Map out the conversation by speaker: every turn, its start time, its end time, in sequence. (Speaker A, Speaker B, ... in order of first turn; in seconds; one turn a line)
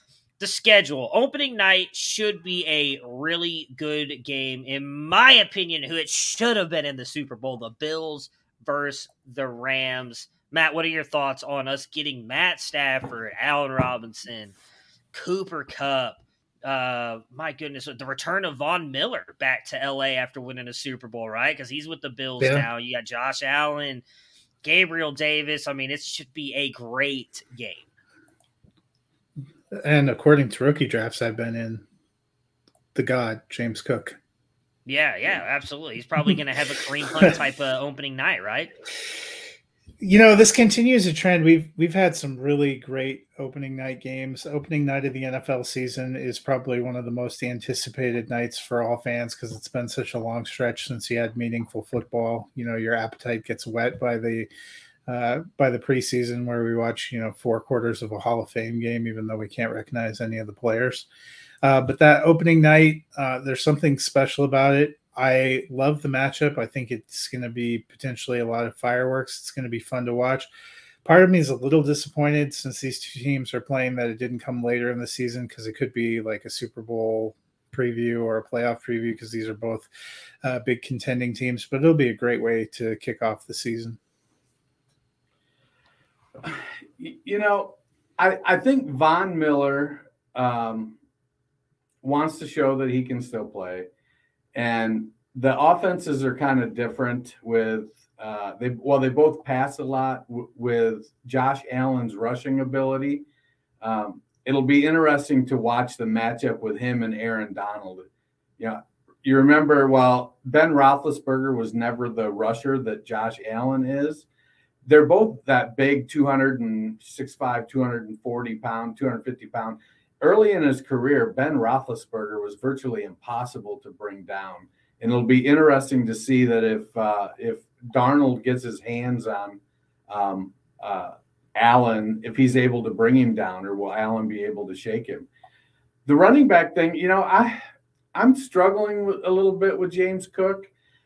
Speaker A: 0.4-14.5
Speaker A: 15.1-24.0
Speaker B: 22.4-22.7
Speaker A: 24.6-27.9
Speaker B: 29.7-31.8
Speaker B: 32.9-34.2
Speaker A: 34.9-38.7
Speaker B: 40.0-54.5
Speaker B: 55.1-61.1
Speaker B: 61.6-70.5
Speaker B: 71.0-79.9
Speaker B: 80.4-84.0
Speaker C: 86.4-91.0
Speaker C: 92.0-93.9
Speaker C: 94.5-103.2
Speaker C: 103.8-108.0
Speaker C: 108.6-114.2
Speaker C: 114.8-135.3
Speaker C: 136.1-137.6
Speaker C: 138.1-140.7